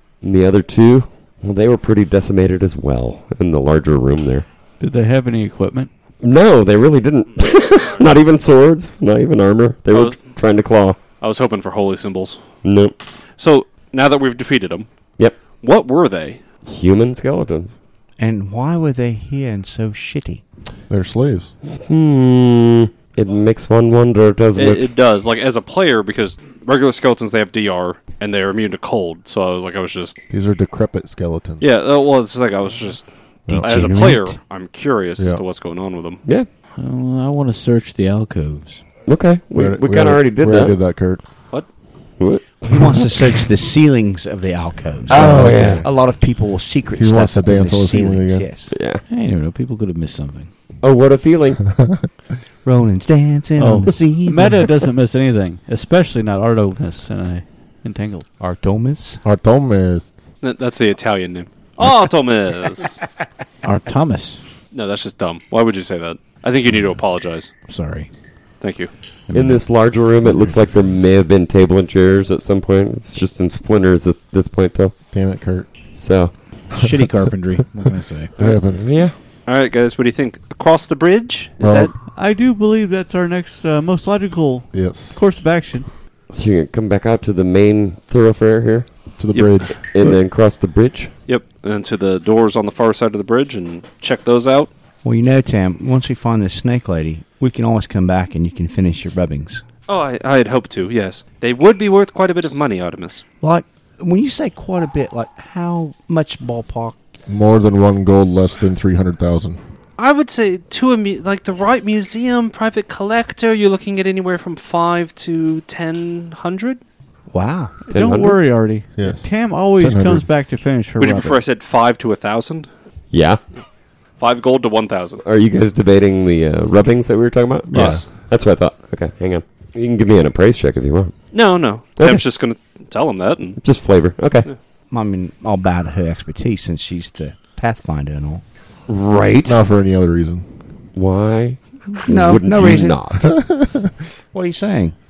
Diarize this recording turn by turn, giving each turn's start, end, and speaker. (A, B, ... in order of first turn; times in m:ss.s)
0:00.2-0:04.5 A
0:04.8-0:05.9 B
0:06.2-0:11.0 A
0:09.9-0:10.2 C
0:11.2-0:12.4 C
0:12.6-0:12.9 A
0:13.4-0:14.9 C
0:15.6-0:16.4 C
0:16.6-0:17.8 A
0:18.2-0:20.4 D
0:20.9-0:21.5 E
0:21.6-0:24.9 A
0:24.6-0:30.2 C
0:30.3-0:31.6 E
0:31.6-0:36.2 C
0:33.5-0:34.2 E
0:33.5-0:34.4 D
0:36.7-0:38.9 F
0:39.0-0:40.8 A
0:39.5-0:41.2 E
0:42.2-0:43.1 A
0:42.7-0:48.7 D
0:45.1-0:45.8 A
0:45.1-0:45.8 E
0:47.0-0:48.5 E
0:48.7-0:49.0 A
0:49.1-0:50.5 F
0:50.8-0:51.6 A
0:51.7-0:52.0 E
0:52.6-0:54.7 D
0:53.6-0:58.3 B
0:58.4-0:59.2 D
0:59.2-1:00.2 E
1:00.4-1:03.0 C
1:03.6-1:04.4 F
1:04.7-1:07.5 C
1:07.7-1:08.1 F
1:08.6-1:08.9 C
1:09.3-1:09.6 F
1:09.3-1:14.9 A
1:10.2-1:10.7 F
1:15.1-1:15.7 E
1:15.9-1:16.6 A
1:16.7-1:18.3 F
1:17.8-1:18.8 E
1:18.6-1:19.2 A
1:19.4-1:21.9 C
1:21.6-1:21.9 E
1:22.1-1:25.9 B
1:24.7-1:25.2 E
1:26.3-1:28.9 A
1:29.2-1:30.1 E
1:29.3-1:29.7 C
1:29.8-1:31.1 A
1:31.3-1:34.7 C
1:35.0-1:39.6 D
1:39.9-1:43.2 C
1:43.4-1:47.0 D
1:47.3-1:49.6 E
1:50.0-1:56.8 C
1:57.3-1:57.7 D
1:57.9-2:01.4 B
1:57.9-1:58.4 A
1:59.0-2:00.3 E
2:01.0-2:02.7 C
2:03.1-2:03.4 A
2:04.2-2:05.2 C
2:05.2-2:11.2 A
2:07.7-2:08.0 E
2:07.7-2:08.1 C
2:11.3-2:13.6 C
2:12.0-2:12.2 A
2:13.6-2:14.5 A
2:14.9-2:18.4 D
2:18.9-2:19.6 A
2:19.4-2:20.4 E
2:20.9-2:23.3 A
2:22.0-2:23.0 D
2:22.6-2:23.9 E
2:24.3-2:24.9 D